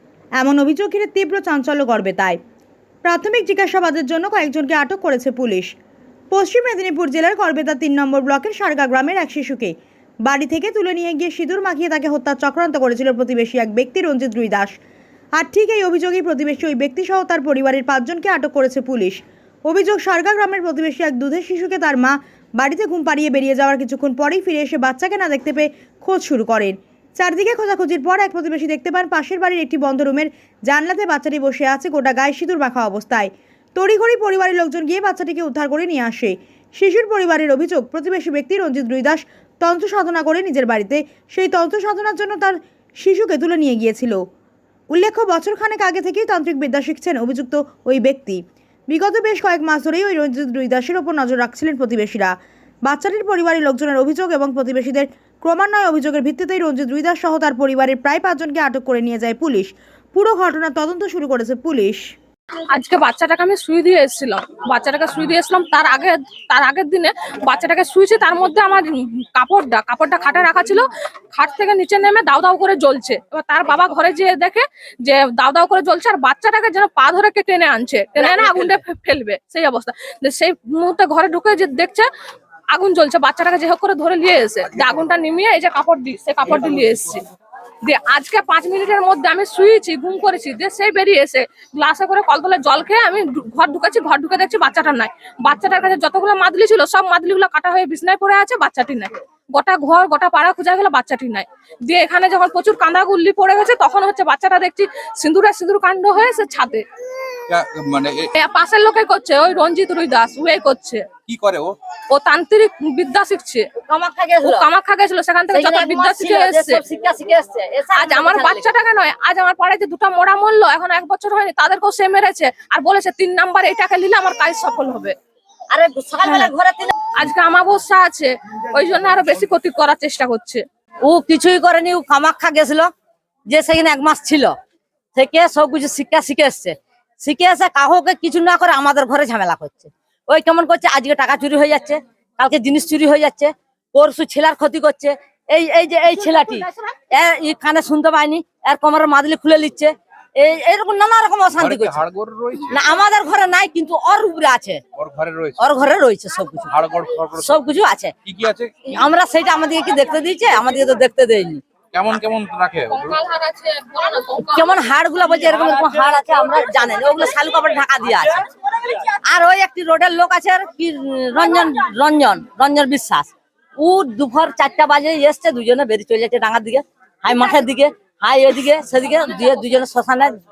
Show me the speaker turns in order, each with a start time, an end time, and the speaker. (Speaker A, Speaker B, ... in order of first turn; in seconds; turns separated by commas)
Speaker A: 0.4-2.4, Speaker A: 3.0-5.7, Speaker A: 6.3-9.7, Speaker A: 10.2-14.7, Speaker A: 15.4-44.2, Speaker A: 44.9-52.3, Speaker A: 52.8-62.0, Speaker B: 62.7-82.1, Speaker B: 82.7-87.2, Speaker C: 86.5-86.8, Speaker B: 87.8-106.8, Speaker C: 107.5-108.3, Speaker B: 108.4-111.1, Speaker C: 111.2-111.8, Speaker B: 112.1-113.7, Speaker D: 113.8-114.7, Speaker B: 114.5-116.8, Speaker D: 115.5-118.7, Speaker B: 118.0-125.2, Speaker D: 125.7-126.9, Speaker B: 126.2-126.5, Speaker B: 127.1-130.6, Speaker D: 131.1-132.9, Speaker D: 133.5-134.5, Speaker D: 135.2-152.0, Speaker C: 151.6-152.8, Speaker D: 152.7-154.8, Speaker C: 155.0-155.7, Speaker D: 155.6-156.7, Speaker C: 156.7-157.6, Speaker D: 157.4-158.1, Speaker C: 158.2-159.0, Speaker D: 158.9-161.6, Speaker C: 161.9-163.2, Speaker B: 162.9-164.8, Speaker D: 164.4-180.3